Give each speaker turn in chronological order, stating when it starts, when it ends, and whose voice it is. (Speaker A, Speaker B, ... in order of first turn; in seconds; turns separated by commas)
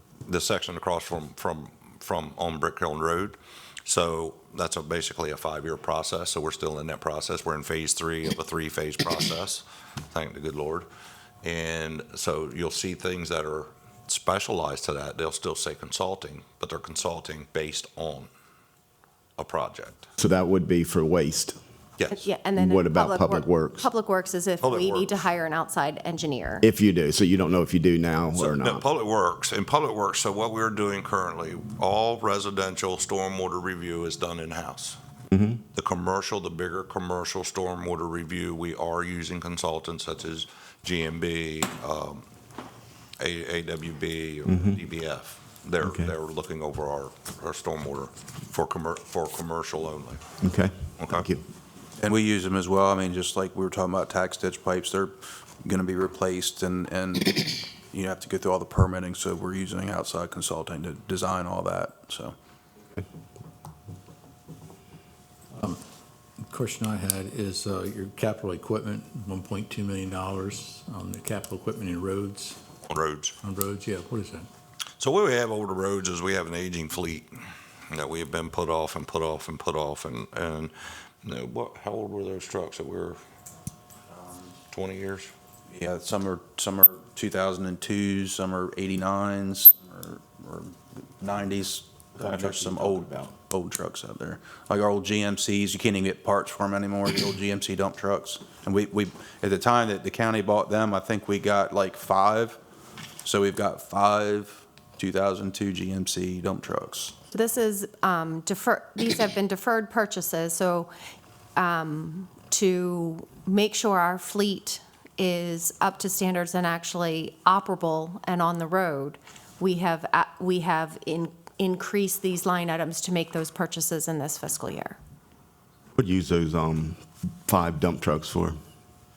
Speaker A: 0.3-10.8, Speaker A: 11.4-18.3, Speaker A: 19.4-20.1, Speaker B: 20.2-21.6, Speaker A: 22.0-22.2, Speaker C: 22.1-26.6, Speaker B: 22.6-23.9, Speaker A: 24.6-25.2, Speaker B: 26.6-28.8, Speaker A: 28.3-35.0, Speaker B: 35.3-35.6, Speaker A: 35.7-42.2, Speaker A: 43.2-50.2, Speaker B: 44.5-44.8, Speaker B: 45.8-46.1, Speaker B: 50.4-51.4, Speaker A: 51.0-51.3, Speaker D: 52.0-62.3, Speaker E: 65.5-65.8, Speaker E: 66.5-72.6, Speaker A: 72.9-73.3, Speaker E: 73.4-74.5, Speaker A: 75.0-77.3, Speaker A: 77.9-80.7, Speaker A: 81.2-83.2, Speaker A: 84.7-85.3, Speaker D: 85.7-102.6, Speaker D: 103.2-107.1, Speaker C: 107.3-110.9, Speaker C: 111.5-125.0, Speaker B: 125.9-128.6